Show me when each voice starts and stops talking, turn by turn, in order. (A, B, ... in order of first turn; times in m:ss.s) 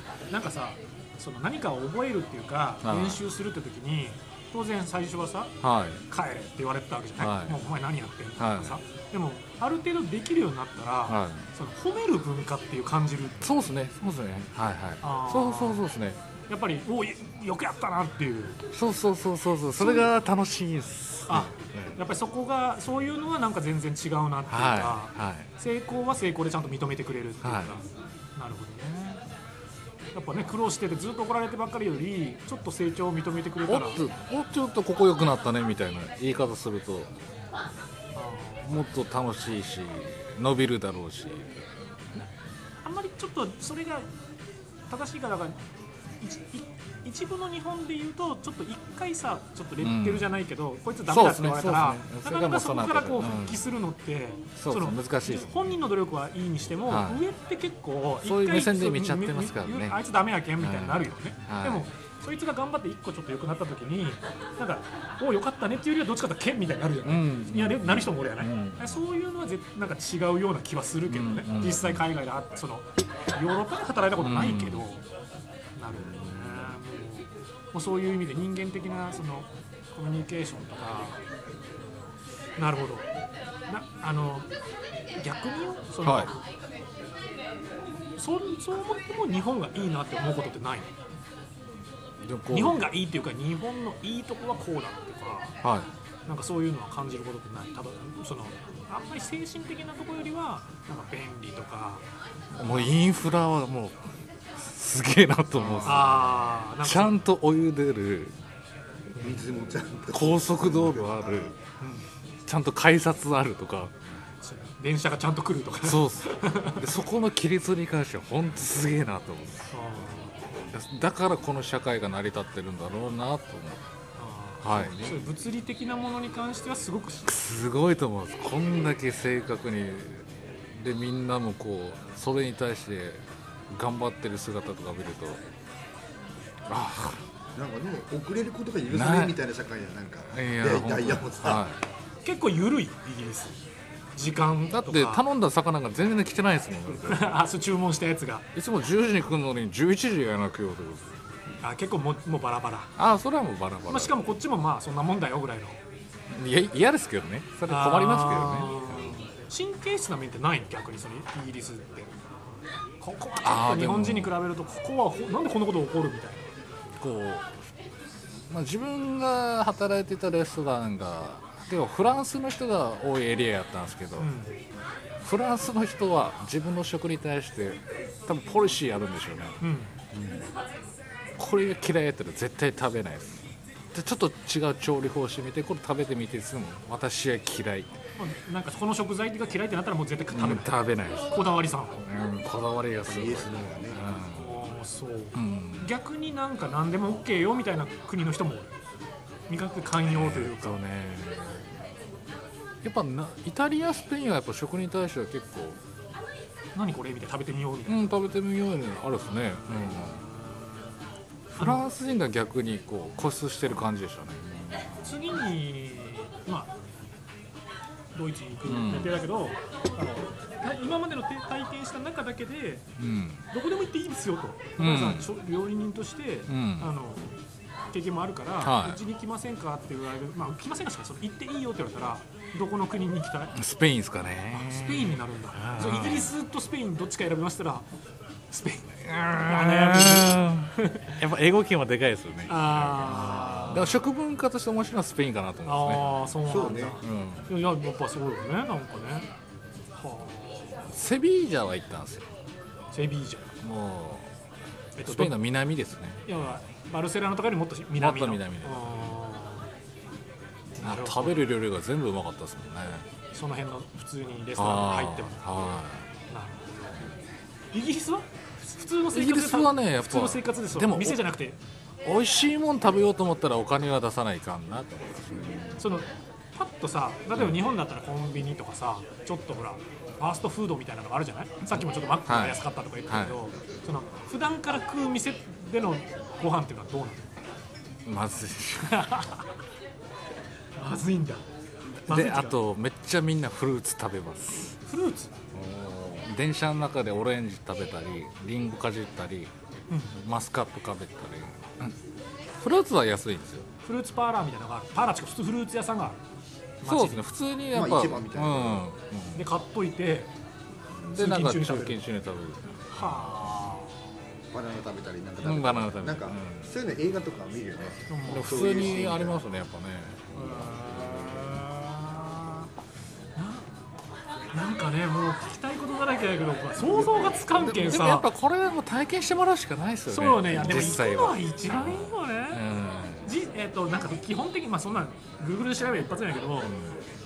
0:00.3-0:05.5 A
0:02.8-0:03.2 B
0:05.6-0:06.0 B
0:06.1-0:13.6 A
0:07.2-0:07.6 B
0:08.4-0:08.8 B
0:11.1-0:11.5 B
0:13.4-0:16.2 B
0:15.0-0:15.8 A
0:16.5-0:18.6 A
0:18.7-0:22.0 B
0:19.8-0:20.1 A
0:21.3-0:29.2 A
0:24.5-0:25.5 B
0:27.4-0:27.7 B
0:30.1-0:34.0 A
0:33.7-0:37.1 B
0:38.1-0:38.8 A
0:38.6-0:41.6 B
0:42.8-0:44.1 A
0:44.9-0:45.6 A
0:46.2-1:15.0 A
0:49.8-0:50.3 B
0:51.1-0:53.6 B
0:54.6-0:55.8 B
0:56.9-0:57.2 B
0:58.2-1:00.0 B
1:00.6-1:01.9 B
1:07.0-1:09.0 B
1:11.1-1:12.1 B
1:14.2-1:14.8 B
1:15.8-1:21.2 A
1:22.6-1:23.1 A
1:23.7-1:24.5 A
1:25.2-1:26.4 A
1:26.0-1:26.3 B
1:28.2-1:30.9 A
1:32.2-1:32.8 B
1:32.5-1:35.5 A
1:35.6-1:35.9 B
1:36.3-1:42.0 A
1:42.5-1:44.0 B
1:42.6-1:42.9 A
1:44.5-1:48.4 B
1:45.6-1:46.1 C
1:45.8-1:47.2 A
1:49.2-1:51.5 C
1:50.1-1:51.5 B
1:51.8-1:52.1 A
1:52.4-1:53.9 B
1:54.4-1:56.9 A
1:55.8-1:59.7 B
1:59.7-2:00.3 A
2:00.7-2:03.8 B
2:04.2-2:07.3 A
2:04.6-2:05.2 B
2:07.2-2:15.4 B
2:16.7-2:17.2 B
2:17.6-2:21.6 C
2:18.9-2:19.4 B
2:20.3-2:21.8 B
2:22.2-2:23.6 A
2:24.1-2:25.2 A
2:24.7-2:27.4 B
2:26.9-2:28.4 A
2:28.5-2:31.1 B
2:31.6-2:32.9 A
2:33.0-2:34.1 B
2:33.9-2:35.8 A
2:36.3-2:39.1 B
2:37.7-2:42.1 A
2:43.0-2:46.4 A
2:43.4-2:44.3 B
2:47.0-2:47.7 B
2:48.5-2:54.3 B
2:54.2-2:54.6 A
2:55.2-2:59.6 B
2:59.6-2:59.9 A
3:00.1-3:00.4 B
3:01.4-3:07.9 B
3:08.2-3:10.7 A
3:10.3-3:14.6 B
3:11.3-3:12.0 A
3:13.0-3:14.0 C
3:14.3-3:18.7 A
3:15.3-3:15.9 B
3:19.5-3:20.8 A
3:20.0-3:21.7 B
3:22.8-3:25.8 B
3:26.7-3:28.1 A
3:27.9-3:30.2 B
3:30.0-3:30.9 A
3:31.5-3:31.8 A
3:31.5-3:35.1 B
3:35.0-3:36.7 A
3:38.1-3:42.9 A
3:38.6-3:39.2 B
3:43.0-3:43.4 B
3:43.5-3:47.3 A
3:44.8-3:45.3 B
3:46.5-3:46.9 B
3:47.9-3:53.6 A
3:48.6-3:49.0 B
3:53.5-3:56.3 B
3:54.5-3:57.8 A
3:58.5-4:01.2 A
3:59.0-4:06.4 B
4:02.5-4:04.0 A
4:05.6-4:09.3 A
4:06.4-4:07.0 C
4:07.0-4:07.5 B
4:10.0-4:10.8 A
4:10.9-4:12.3 B
4:12.9-4:13.5 A
4:13.6-4:14.3 B
4:15.0-4:15.3 A
4:15.0-4:16.2 B
4:16.2-4:19.7 A
4:17.9-4:19.2 B
4:20.8-4:21.4 A
4:20.8-4:23.1 B
4:23.3-4:25.5 A
4:24.6-4:26.1 B
4:26.3-4:27.0 A
4:27.7-4:31.6 A
4:29.1-4:31.2 B
4:32.0-4:35.8 B
4:35.8-4:47.3 A
4:37.3-4:37.6 B
4:41.7-4:43.4 B
4:48.0-4:49.2 B
4:48.8-4:49.5 A
4:50.8-4:51.4 A
4:52.0-4:52.6 A
4:52.1-4:54.8 B
4:54.8-4:55.3 A
4:55.5-4:59.5 B
4:59.9-5:00.1 A
5:00.0-5:02.0 B
5:02.6-5:03.7 B
5:03.8-5:06.2 A
5:06.8-5:07.2 A
5:06.8-5:09.5 B
5:07.7-5:08.8 C
5:09.3-5:10.3 A
5:11.1-5:12.0 A
5:11.1-5:13.3 B
5:12.9-5:14.0 A
5:14.5-5:19.4 C
5:15.4-5:16.7 B
5:18.1-5:18.7 A
5:18.3-5:20.7 B
5:20.3-5:22.7 A
5:23.4-5:23.7 A
5:24.5-5:28.3 A
5:26.8-5:27.4 C
5:27.5-5:33.3 B
5:30.1-5:32.6 A
5:33.2-5:36.7 A
5:36.6-5:37.0 B